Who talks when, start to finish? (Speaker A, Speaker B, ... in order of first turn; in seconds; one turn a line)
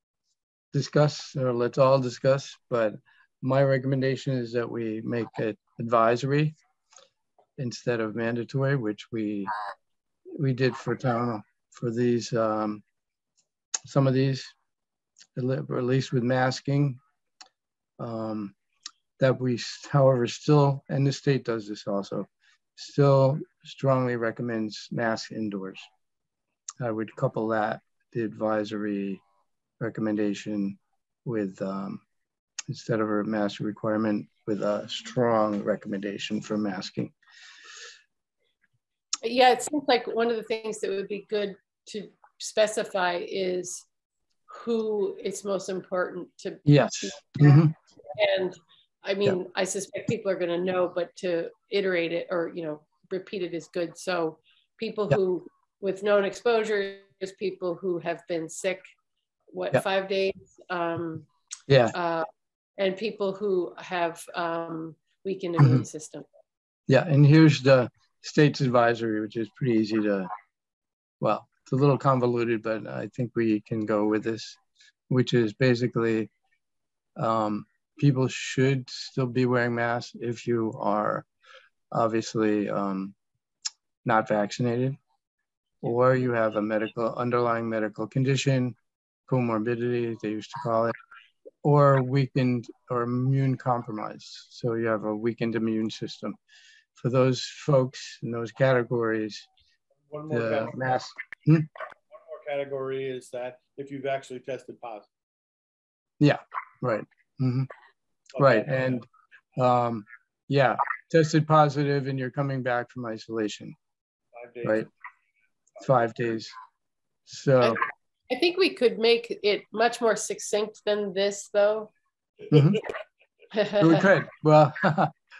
Speaker A: 0.7-6.5
Speaker A: 7.6-9.5
Speaker A: 10.3-12.8
Speaker A: 13.9-14.5
Speaker A: 15.3-17.0
Speaker A: 18.0-18.5
Speaker A: 19.2-25.9
Speaker A: 26.8-29.2
Speaker A: 29.8-32.0
Speaker A: 32.7-37.1
Speaker B: 39.2-43.8
Speaker B: 44.5-47.6
Speaker A: 46.6-47.7
Speaker B: 48.2-58.8
Speaker B: 59.5-61.3
Speaker A: 61.7-61.9
Speaker B: 61.9-66.3
Speaker A: 66.9-70.3
Speaker A: 71.2-74.6
Speaker A: 75.1-76.3
Speaker A: 77.2-81.3
Speaker A: 81.9-83.1
Speaker A: 84.0-85.0
Speaker A: 85.8-88.8
Speaker A: 89.3-91.0
Speaker A: 91.6-96.4
Speaker A: 97.0-99.5
Speaker C: 100.1-100.8
Speaker A: 100.3-101.7
Speaker C: 102.1-105.1
Speaker A: 106.2-107.7
Speaker C: 108.3-109.0
Speaker A: 108.4-109.0
Speaker A: 109.6-113.8
Speaker C: 114.3-114.8
Speaker A: 115.8-116.5
Speaker A: 117.3-117.8
Speaker B: 117.6-121.9
Speaker A: 122.5-122.8
Speaker B: 123.5-124.0
Speaker A: 123.8-125.1